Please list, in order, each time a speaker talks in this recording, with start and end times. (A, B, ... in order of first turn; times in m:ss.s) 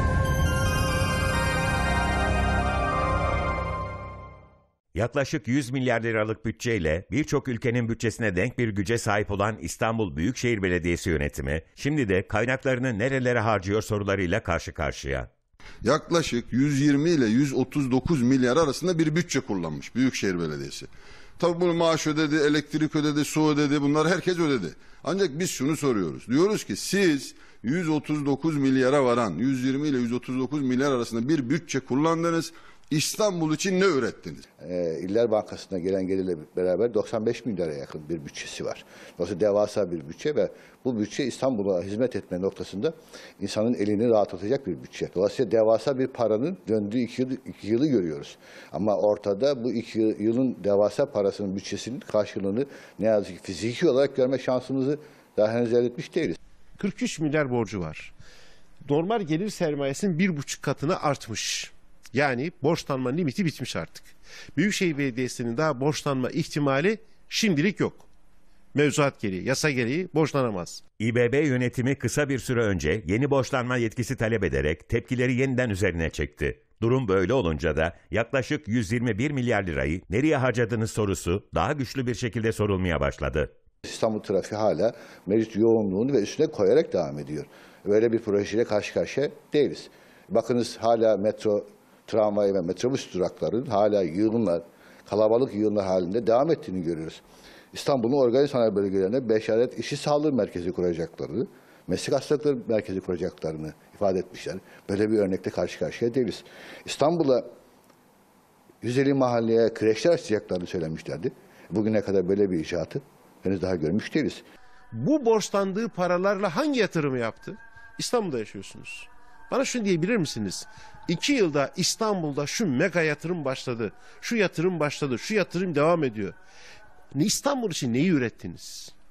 0:04.9-0:15.3 A
0:15.8-0:34.4 B
0:34.6-0:56.4 C
0:56.8-0:58.1 D
0:58.8-1:08.0 D
1:08.7-1:10.8 D
1:11.0-1:23.5 A
1:23.8-1:47.4 C
1:48.8-1:54.4 C
1:54.9-2:06.4 D
2:07.1-2:08.9 D